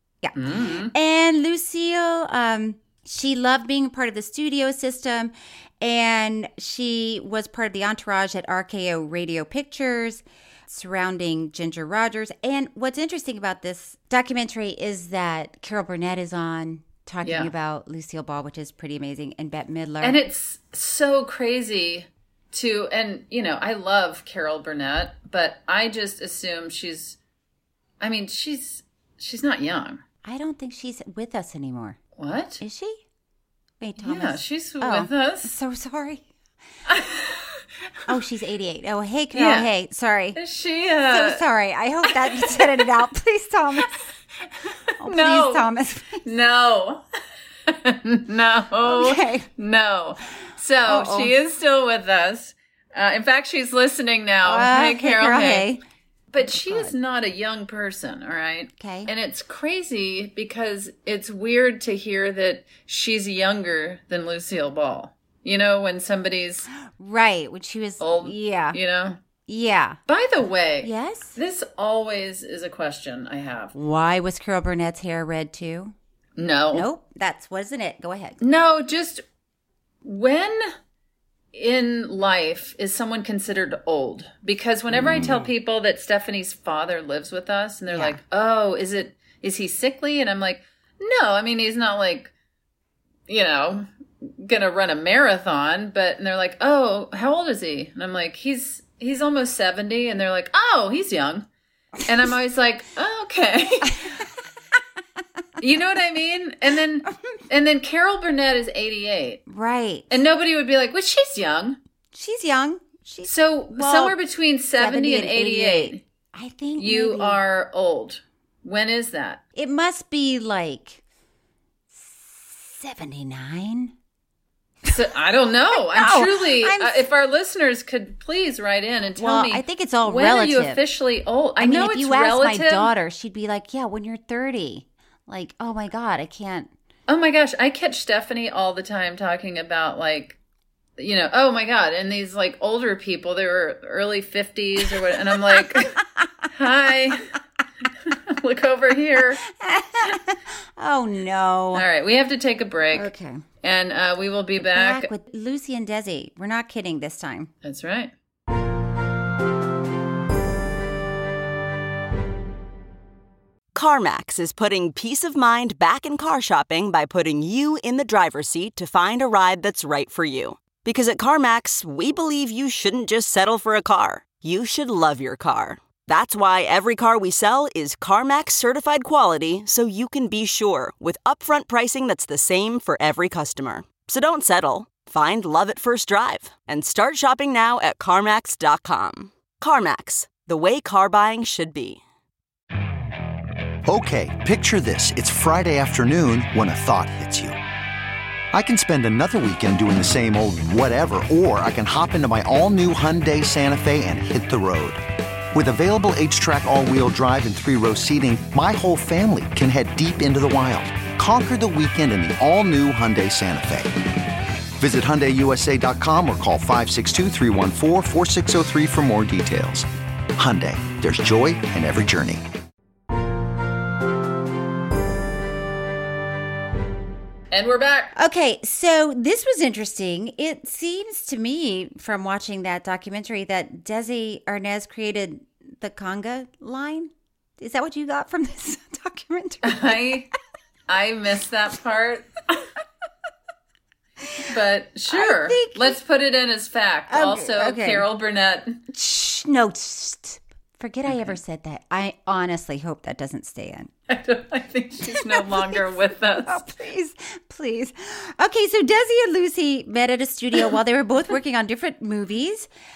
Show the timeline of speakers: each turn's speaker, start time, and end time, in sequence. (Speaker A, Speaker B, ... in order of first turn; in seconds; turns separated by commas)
Speaker A: 0.2-20.2, Speaker B: 0.4-0.9, Speaker B: 17.2-17.5, Speaker B: 20.0-27.2, Speaker B: 28.0-30.0, Speaker A: 30.2-32.0, Speaker B: 32.2-32.6, Speaker A: 32.6-33.0, Speaker A: 33.8-36.2, Speaker B: 34.0-35.5, Speaker B: 36.9-37.6, Speaker A: 38.1-40.4, Speaker B: 39.3-39.7, Speaker B: 40.4-41.4, Speaker A: 41.1-43.9, Speaker B: 42.2-42.7, Speaker A: 45.0-46.2, Speaker B: 45.0-45.7, Speaker B: 46.2-47.0, Speaker B: 47.7-55.7, Speaker A: 48.8-49.5, Speaker A: 50.9-51.3, Speaker A: 54.4-55.8, Speaker B: 56.3-66.7, Speaker A: 56.7-56.9, Speaker A: 58.8-59.1, Speaker A: 66.8-68.8, Speaker B: 68.0-69.2, Speaker A: 69.5-70.0, Speaker B: 70.1-73.8, Speaker A: 70.8-71.4, Speaker A: 73.7-76.0, Speaker B: 76.4-76.9, Speaker A: 76.7-78.4, Speaker B: 78.4-79.2, Speaker B: 80.0-80.7, Speaker B: 81.5-92.3, Speaker A: 85.1-85.4, Speaker A: 87.9-88.2, Speaker B: 93.3-101.5, Speaker B: 102.1-104.1, Speaker B: 105.6-109.4, Speaker A: 109.5-110.1, Speaker B: 110.1-111.8, Speaker A: 112.1-114.2, Speaker B: 113.2-116.0, Speaker A: 114.8-117.4, Speaker B: 116.8-119.4, Speaker A: 119.5-121.0, Speaker A: 121.9-123.9, Speaker B: 124.9-132.9, Speaker A: 125.7-127.0, Speaker A: 129.2-130.8, Speaker A: 131.6-136.7, Speaker B: 137.1-140.4, Speaker B: 141.0-147.3, Speaker A: 145.5-146.3, Speaker B: 148.0-149.4, Speaker A: 149.4-151.9, Speaker B: 151.7-153.1, Speaker A: 152.9-153.4, Speaker B: 153.6-155.1, Speaker A: 154.6-157.5, Speaker B: 157.6-158.1, Speaker C: 163.7-192.0, Speaker D: 193.8-197.6, Speaker D: 198.5-205.0, Speaker D: 205.5-213.9, Speaker D: 214.8-222.4, Speaker B: 227.5-228.1, Speaker A: 228.2-240.2, Speaker B: 239.6-240.3, Speaker B: 240.9-242.6, Speaker B: 244.4-248.8, Speaker A: 245.1-246.0, Speaker A: 247.1-248.1, Speaker A: 248.9-253.9, Speaker B: 251.1-251.4, Speaker B: 254.1-256.6, Speaker A: 255.0-255.8, Speaker A: 256.4-262.7